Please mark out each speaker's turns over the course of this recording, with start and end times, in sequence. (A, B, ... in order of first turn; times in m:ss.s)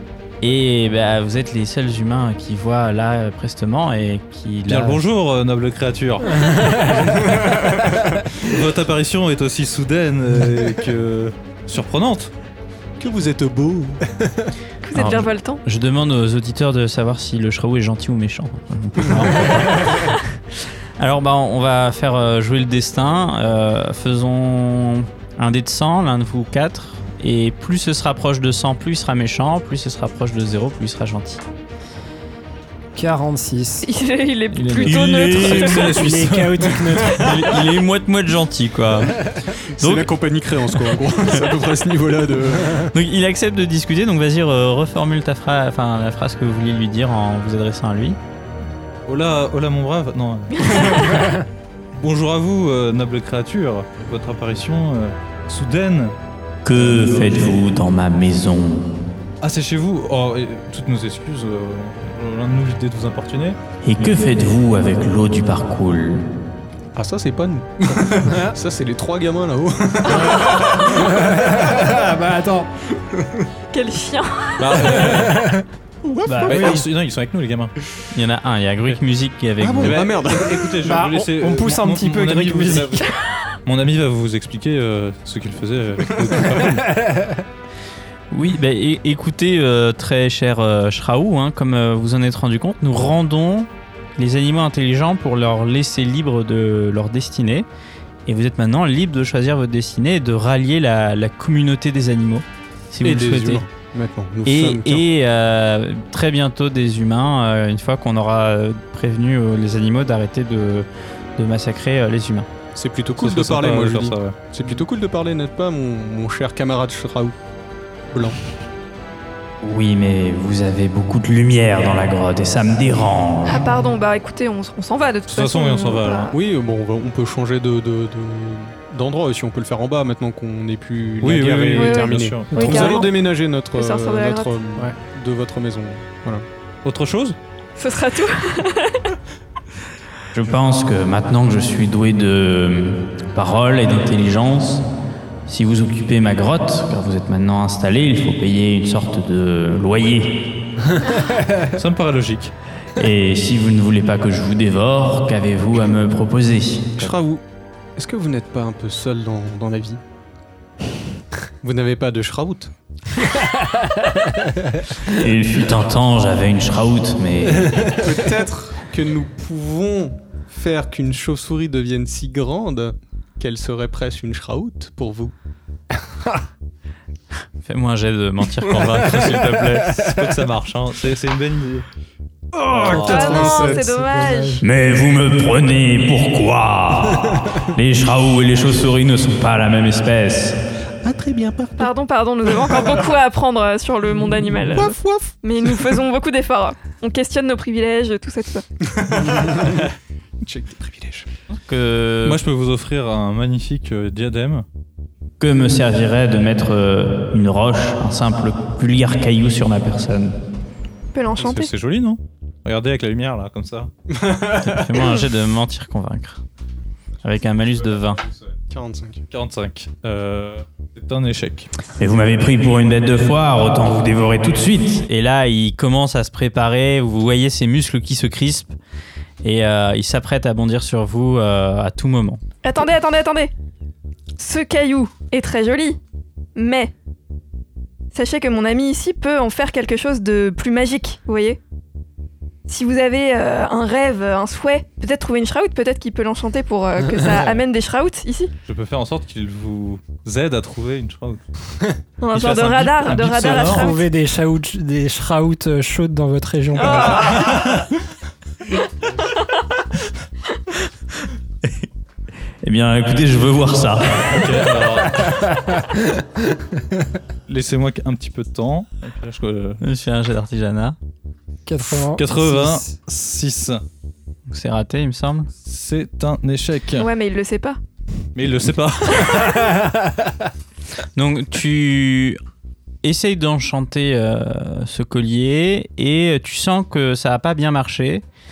0:00.4-0:05.0 A
0:04.7-0:06.9 B
0:06.5-0:07.0 C
0:07.0-0:08.2 D
0:08.4-0:12.3 B
0:13.0-0:14.0 D
0:14.8-0:15.6 E
0:14.9-0:20.2 A
0:21.0-0:31.4 A
0:33.0-0:33.8 C
0:33.8-0:36.0 E
0:34.5-0:36.0 A
0:34.8-0:36.9 B
0:35.9-0:37.5 C
0:37.1-0:40.1 A
0:39.7-0:42.9 D
0:42.9-0:48.2 A
0:49.0-0:51.4 B
0:50.7-0:51.0 E
0:52.0-0:56.1 B
0:56.6-0:58.9 A
0:56.8-0:57.4 B
0:59.4-1:03.6 B
1:03.8-1:06.2 A
1:06.9-1:11.9 D
1:08.3-1:08.5 C
1:10.1-1:12.7 C
1:13.1-1:13.4 D
1:13.7-1:15.0 E
1:14.6-1:15.5 B
1:15.0-1:15.6 C
1:16.0-1:16.8 D
1:16.2-1:16.9 C
1:16.4-1:17.7 B
1:18.1-1:20.0 A
1:19.6-1:20.8 D
1:19.8-1:23.1 B
1:20.8-1:23.0 C
1:23.6-1:26.9 B
1:27.0-1:27.4 C
1:28.3-1:37.7 A
1:38.2-1:43.6 A
1:43.0-1:45.0 D
1:44.4-1:52.5 A
1:52.7-1:57.3 D
1:53.2-1:54.4 B
1:58.1-1:58.4 D
1:59.6-2:03.7 A
2:03.5-2:06.3 E
2:05.3-2:06.3 B
2:06.3-2:16.4 D
2:11.2-2:13.0 B
2:11.7-2:13.2 E
2:13.7-2:14.5 E
2:16.8-2:17.4 B
2:17.8-2:19.1 E
2:20.3-2:24.8 A
2:25.5-2:30.5 A
2:31.7-2:32.5 B
2:32.9-2:37.0 A
2:37.0-2:37.4 D
2:38.0-2:40.0 D
2:41.6-2:42.7 D
2:45.0-2:48.0 A
2:47.9-2:55.3 D
2:57.6-3:00.1 A
2:59.3-3:01.8 B
3:02.5-3:04.0 D
3:02.7-3:03.5 B
3:02.9-3:04.6 E
3:02.9-3:04.6 C
3:04.6-3:10.6 A
3:11.0-3:11.9 D
3:11.8-3:18.6 E
3:14.7-3:15.7 D
3:18.9-3:19.9 D
3:20.4-3:21.3 D
3:21.7-3:22.4 A
3:22.2-3:24.6 B
3:25.4-3:30.4 A
3:31.1-3:31.7 E
3:31.4-3:33.9 B
3:34.1-3:35.1 D
3:34.6-3:36.4 A
3:37.2-3:38.2 A
3:38.7-3:39.2 D
3:39.3-3:41.7 B
3:42.0-3:48.7 A
3:49.4-3:52.4 A
3:52.6-3:53.5 E
3:54.4-3:56.0 E
3:56.6-3:56.9 E
3:58.1-4:01.6 E
4:02.7-4:08.5 E
4:07.2-4:07.5 C
4:08.6-4:11.4 B
4:12.2-4:14.1 E
4:12.3-4:13.9 B
4:13.6-4:17.3 C
4:16.8-4:17.6 E
4:17.2-4:17.9 B
4:22.6-4:24.7 A
4:24.2-4:25.4 B
4:27.5-4:29.8 B
4:29.8-4:31.0 A
4:31.6-4:32.9 C
4:32.0-4:33.8 B
4:34.5-4:35.5 A
4:35.6-4:37.1 B
4:37.0-4:37.8 E
4:38.3-4:39.7 B
4:41.2-4:42.4 A
4:43.0-4:48.2 A